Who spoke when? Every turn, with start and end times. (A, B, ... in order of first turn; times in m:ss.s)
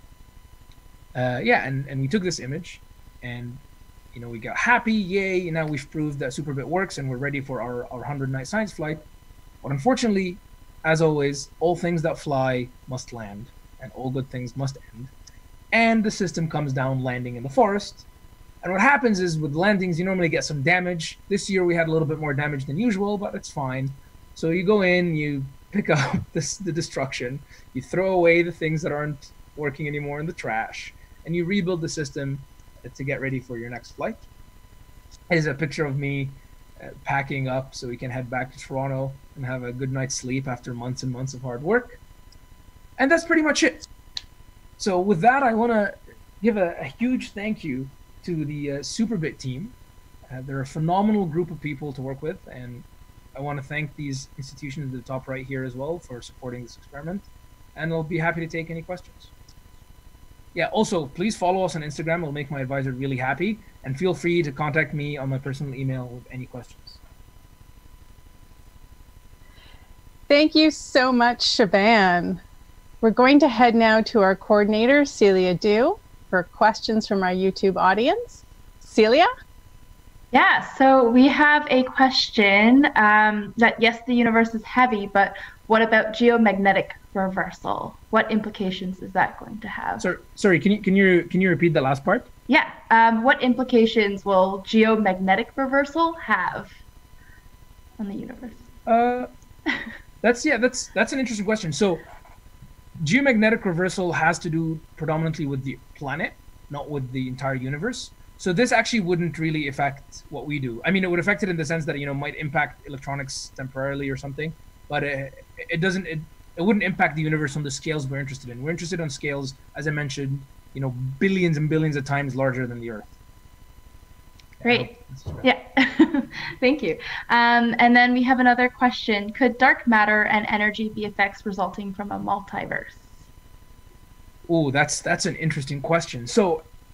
0:01.1-0:03.6 A
0:04.1-0:09.0 A
0:09.6-0:15.1 A
0:15.7-0:18.1 A
0:18.6-0:34.3 A
0:35.3-0:42.0 A
0:43.0-0:43.9 A
0:44.8-0:49.8 A
0:50.3-0:59.3 A
1:00.5-1:07.0 A
1:10.3-1:12.4 B
1:13.0-1:19.3 B
1:20.3-1:30.1 C
1:30.0-1:32.3 A
1:32.5-1:36.7 C
1:38.0-1:38.7 C
1:38.9-1:39.3 A
1:40.2-1:42.0 A
1:43.0-2:03.2 A
2:04.6-2:05.5 A
2:04.6-2:13.1 C
2:14.5-2:16.6 A